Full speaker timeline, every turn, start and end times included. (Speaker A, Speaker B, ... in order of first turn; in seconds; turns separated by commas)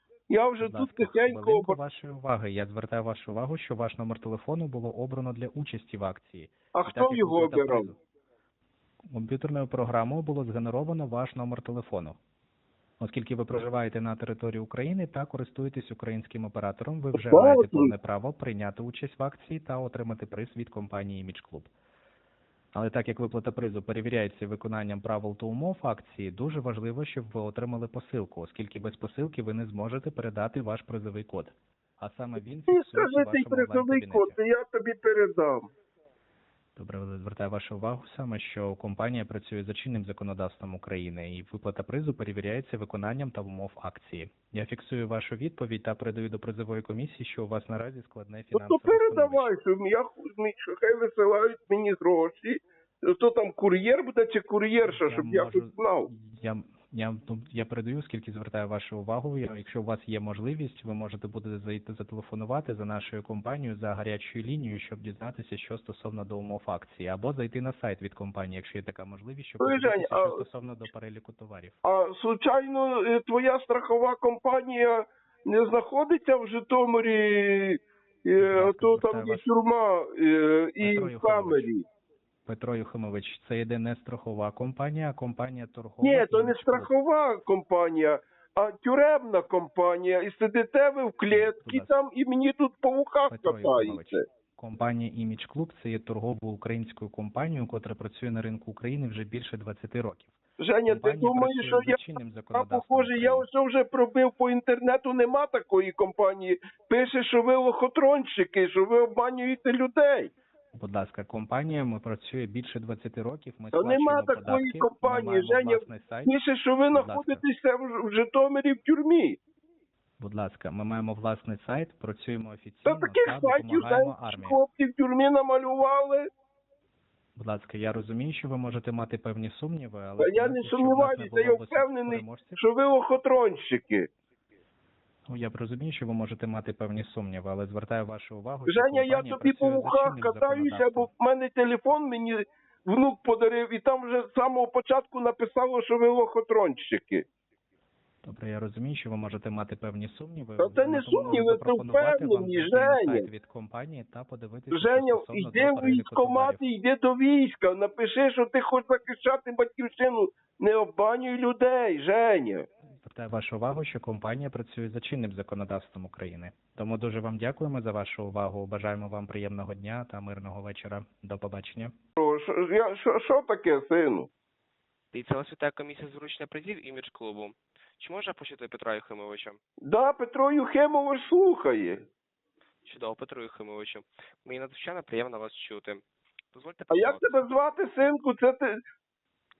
Speaker A: 0.3-1.8, Speaker B: 0.6-8.0, Speaker A: 6.7-7.9, Speaker B: 9.1-12.2, Speaker B: 13.0-21.7, Speaker A: 17.1-17.9, Speaker B: 22.7-34.4, Speaker A: 32.7-35.7, Speaker B: 36.8-49.5, Speaker A: 48.5-56.1, Speaker B: 54.8-71.8, Speaker A: 69.6-70.4, Speaker A: 71.8-81.8, Speaker B: 78.4-79.5, Speaker B: 80.8-81.7, Speaker B: 82.5-86.9, Speaker A: 86.0-94.2, Speaker B: 91.3-91.9, Speaker B: 93.3-103.5, Speaker A: 100.6-102.0, Speaker A: 102.5-110.3, Speaker B: 110.7-116.3, Speaker A: 113.7-119.4, Speaker B: 116.9-117.4, Speaker B: 120.2-124.6, Speaker A: 122.8-126.3, Speaker B: 127.3-132.6, Speaker A: 130.2-134.1, Speaker B: 135.3-141.1, Speaker A: 138.7-147.2, Speaker B: 148.2-156.6, Speaker A: 150.6-153.3, Speaker A: 154.7-162.7, Speaker B: 163.0-171.9, Speaker A: 172.2-174.3, Speaker C: 175.1-179.6, Speaker A: 179.8-182.0, Speaker C: 182.8-188.1, Speaker A: 186.9-188.8